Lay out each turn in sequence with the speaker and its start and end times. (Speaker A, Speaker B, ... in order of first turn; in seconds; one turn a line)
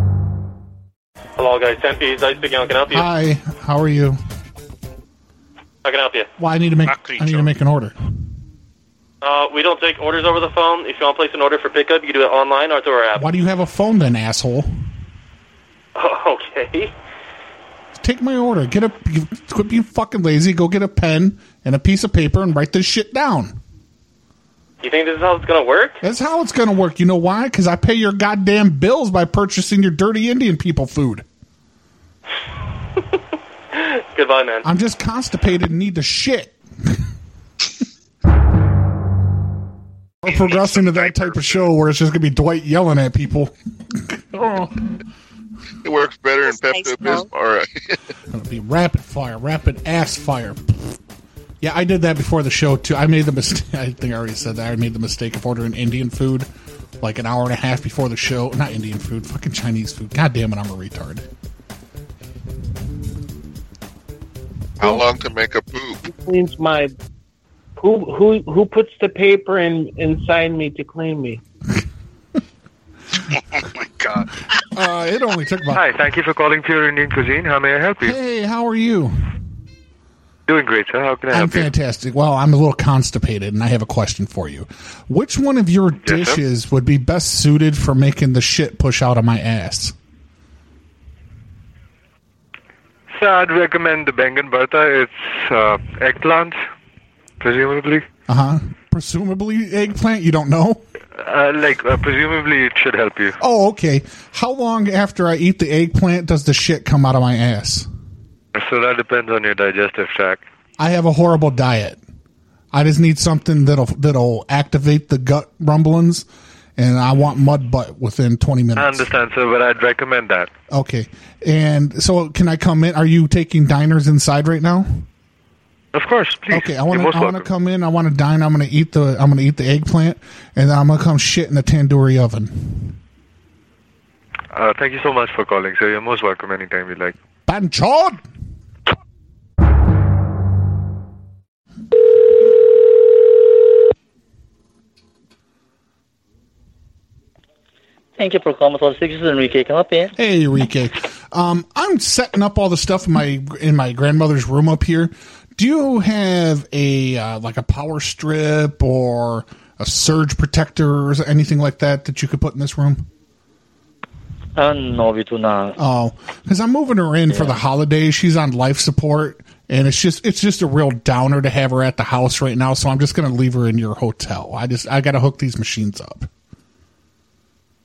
Speaker A: 1.4-3.1
Speaker B: 2.9-4.2
Speaker A: 5.8-6.3
Speaker B: 6.4-8.0
Speaker A: 6.9-7.5
Speaker A: 9.2-13.2
Speaker B: 13.2-14.8
Speaker A: 16.0-16.9
Speaker B: 17.9-23.6
Speaker A: 24.8-26.0
Speaker B: 26.0-31.2
Speaker A: 33.7-34.6
Speaker B: 34.6-37.0
Speaker B: 40.2-44.8
Speaker A: 40.3-41.6
Speaker C: 45.8-47.9
Speaker B: 48.3-51.0
Speaker B: 51.6-56.5
Speaker B: 57.0-61.3
Speaker C: 64.8-66.0
Speaker D: 66.1-66.9
Speaker D: 67.8-71.4
Speaker A: 73.5-74.2
Speaker B: 74.7-75.9
Speaker E: 75.7-78.2
Speaker B: 78.0-79.3
Speaker E: 80.5-81.7
Speaker B: 81.3-90.0
Speaker E: 86.0-86.4
Speaker E: 93.2-96.6
Speaker E: 97.4-98.1
Speaker B: 98.3-100.8
Speaker E: 101.2-103.4
Speaker B: 103.4-107.9
Speaker E: 108.5-110.4
Speaker B: 110.8-112.0
Speaker B: 112.7-119.1
Speaker E: 118.8-120.5
Speaker B: 120.7-125.1
Speaker E: 125.9-127.5
Speaker B: 126.5-133.0
Speaker E: 134.5-137.2
Speaker B: 137.5-138.2
Speaker F: 148.2-150.1
Speaker B: 150.2-163.1
Speaker F: 164.6-165.8
Speaker B: 165.8-176.3
Speaker F: 167.3-167.6